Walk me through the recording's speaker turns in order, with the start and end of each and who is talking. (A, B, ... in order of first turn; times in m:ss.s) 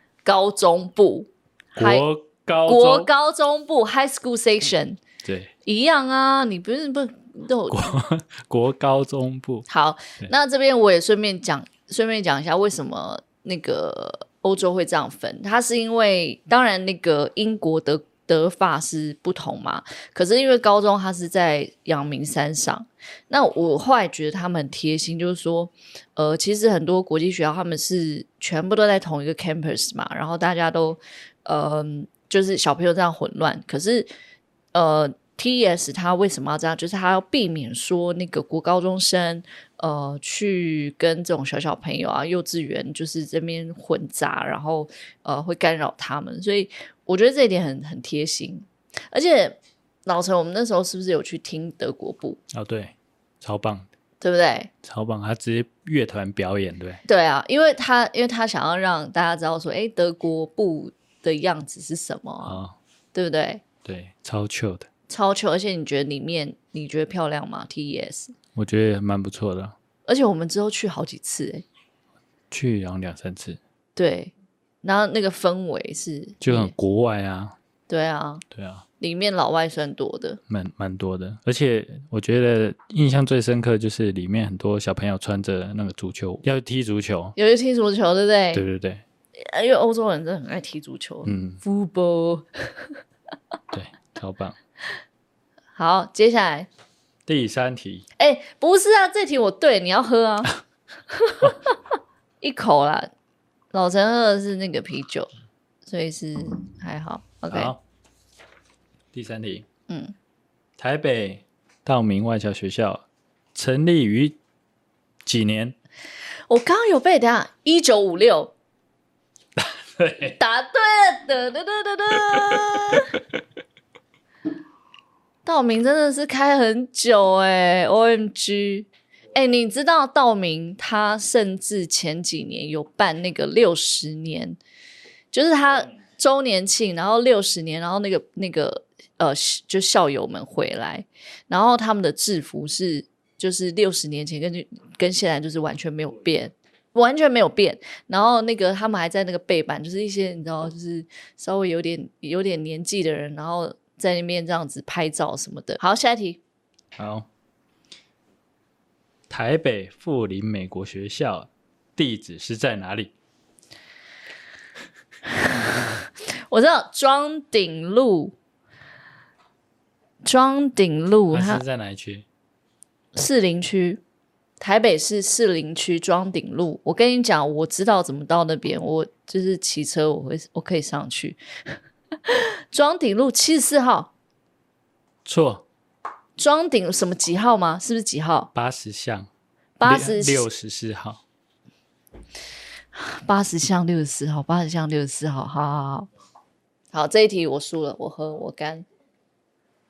0:00.2-0:02.0 A
0:01.7-0:03.1 B
0:02.6-0:05.0 A
0:05.2-0:05.5 B
0:05.6-0:08.0 A
0:07.7-0:09.7 B
0:09.7-0:34.1 A
0:34.7-0:52.4 A
0:52.5-0:53.9 B
0:54.2-0:54.7 A
0:54.8-0:57.0 B
0:57.0-1:02.6 A
1:02.4-1:02.8 B
1:03.1-1:03.6 A
1:03.8-1:04.9 B
1:05.1-1:08.3 A
1:08.5-1:09.8 B
1:10.1-1:11.6 A
1:12.5-1:13.6 B
1:14.0-1:16.7 A
1:16.4-1:17.6 B
1:17.9-1:18.4 A
1:18.5-1:18.8 B
1:19.0-1:20.4 A
1:20.5-1:27.4 B
1:27.4-1:28.6 A
1:28.5-1:29.0 B
1:29.4-1:32.9 A
1:31.2-1:31.6 B
1:33.7-1:34.6 B
1:35.8-1:36.7 A
1:37.2-1:38.0 B
1:38.2-1:40.6 A
1:41.1-1:41.8 A
1:42.4-1:43.1 A
1:43.7-1:45.3 A
1:45.8-1:47.7 A
1:47.5-1:47.8 B
1:49.1-1:49.6 B
1:49.9-1:50.1 A
1:50.8-1:54.4 B
1:55.2-1:55.8 B
1:56.5-1:58.5 A
1:59.6-2:00.4 B
2:00.4-2:03.2 A
2:02.3-2:03.2 B
2:05.4-2:14.6 A
2:15.3-2:36.4 A
2:37.0-2:37.3 B
2:39.3-2:43.1 B
2:45.3-2:48.4 A
2:50.2-2:51.6 A
2:51.3-2:52.2 B
2:53.1-2:54.0 A
2:54.6-3:01.4 A
3:02.2-3:04.1 A
3:05.2-3:05.6 B
3:06.4-3:08.5 A
3:08.5-3:09.3 B
3:09.8-3:10.5 A
3:09.8-3:11.2 B
3:12.9-3:16.1 A
3:16.9-3:18.8 A